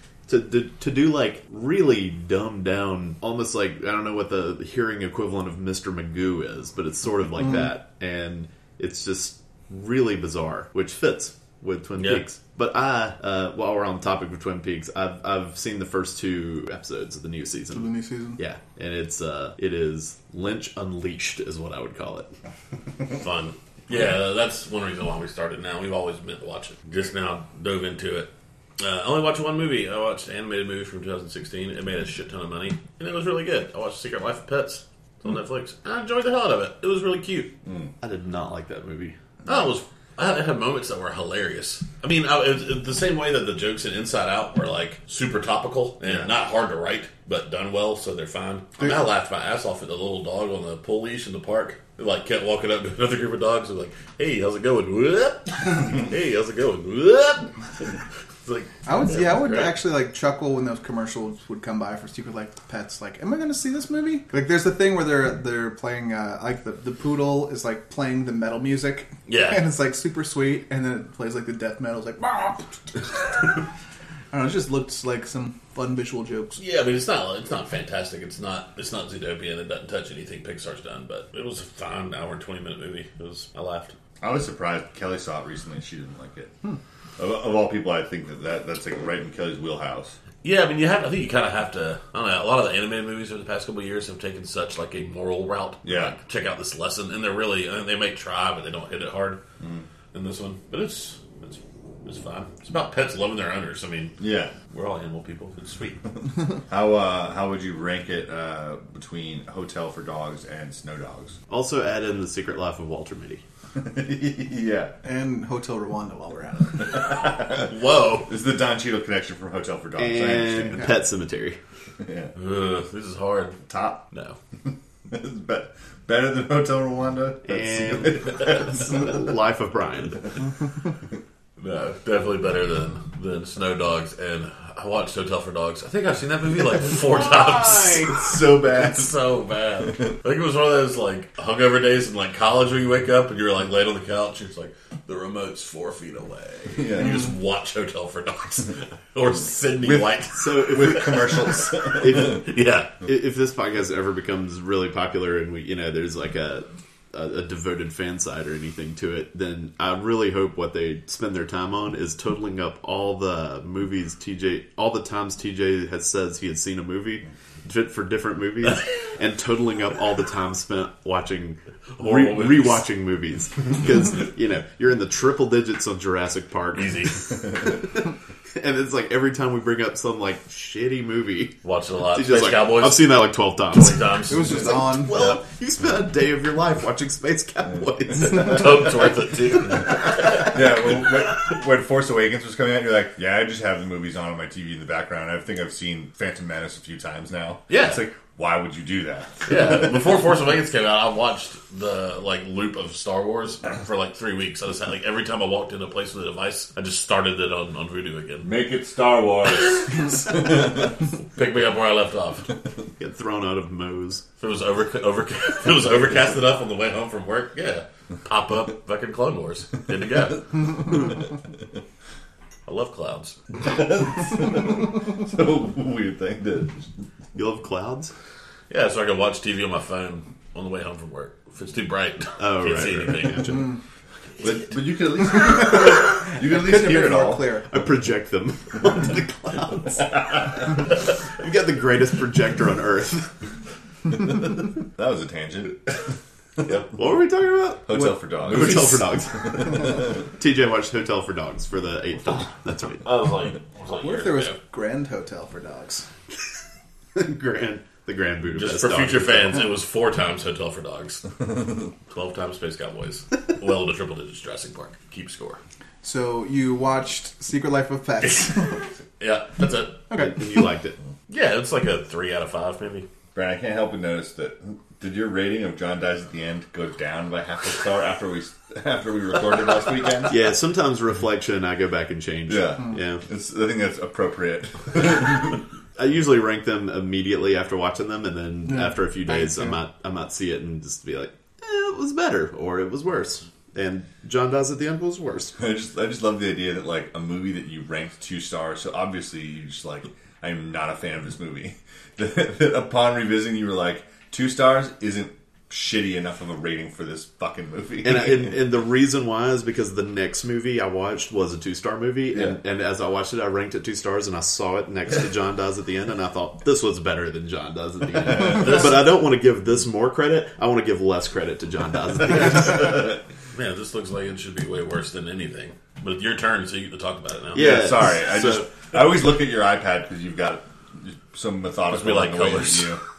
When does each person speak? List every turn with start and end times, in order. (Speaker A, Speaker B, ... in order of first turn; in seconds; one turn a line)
Speaker A: 0.3-22.3
Speaker B: 12.0-12.2
Speaker C: 17.7-18.4
Speaker B: 23.1-37.5
Speaker D: 37.7-37.9
Speaker A: 38.0-39.2
Speaker B: 39.5-59.8
Speaker D: 46.0-46.3
Speaker C: 58.9-73.5
Speaker B: 69.3-69.7
Speaker C: 74.3-76.6
Speaker B: 76.6-84.0
Speaker D: 84.2-86.5
Speaker D: 87.2-90.2
Speaker B: 90.4-99.4
Speaker D: 95.8-96.2
Speaker D: 99.6-99.9
Speaker B: 100.1-106.0
Speaker D: 104.2-104.5
Speaker D: 106.7-111.4
Speaker A: 111.5-113.4
Speaker D: 113.8-115.0
Speaker C: 115.0-117.1
Speaker D: 116.8-117.7
Speaker B: 117.4-118.3
Speaker D: 118.2-120.9
Speaker A: 120.0-121.6
Speaker D: 122.0-122.3
Speaker B: 122.3-123.6
Speaker D: 123.7-124.0
Speaker D: 124.7-129.3
Speaker A: 127.5-130.3
Speaker B: 131.6-151.4
Speaker A: 136.9-138.4
Speaker D: 138.2-139.1
Speaker D: 146.8-147.3
Speaker D: 149.8-152.5
Speaker A: 150.4-181.6
Speaker B: 152.2-153.0
Speaker B: 172.0-172.8
Speaker B: 176.7-177.2
Speaker B: 181.6-185.4
Speaker A: 182.1-188.9
Speaker C: 184.3-185.2
Speaker B: 188.2-190.6
Speaker D: 190.3-199.8
Speaker B: 197.7-198.0
Speaker B: 199.5-208.5
Speaker D: 208.4-210.9
Speaker B: 209.9-212.5
Speaker A: 213.0-214.2
Speaker B: 214.4-221.1
Speaker B: 222.7-223.4
Speaker D: 223.6-226.9
Speaker A: 227.3-228.1
Speaker B: 228.7-233.7
Speaker A: 232.4-233.7
Speaker D: 234.4-237.5
Speaker C: 235.6-237.7
Speaker A: 237.7-240.8
Speaker A: 241.4-243.3
Speaker D: 244.1-246.1
Speaker A: 246.9-253.1
Speaker D: 247.9-250.2
Speaker B: 253.0-254.6
Speaker C: 254.0-256.1
Speaker A: 257.1-259.7
Speaker B: 258.5-261.3
Speaker B: 262.1-265.6
Speaker C: 266.0-268.8
Speaker B: 269.2-270.1
Speaker C: 270.1-270.4
Speaker A: 270.1-271.0
Speaker B: 271.3-273.1
Speaker D: 273.3-280.4
Speaker A: 280.3-283.2
Speaker D: 282.5-285.6
Speaker A: 286.0-295.6
Speaker C: 288.7-289.8
Speaker D: 295.6-308.6
Speaker A: 308.0-323.1
Speaker D: 312.3-312.6
Speaker D: 318.4-318.8
Speaker B: 318.6-318.9
Speaker B: 323.5-327.7
Speaker A: 327.5-328.7
Speaker D: 327.5-333.0
Speaker B: 331.9-333.0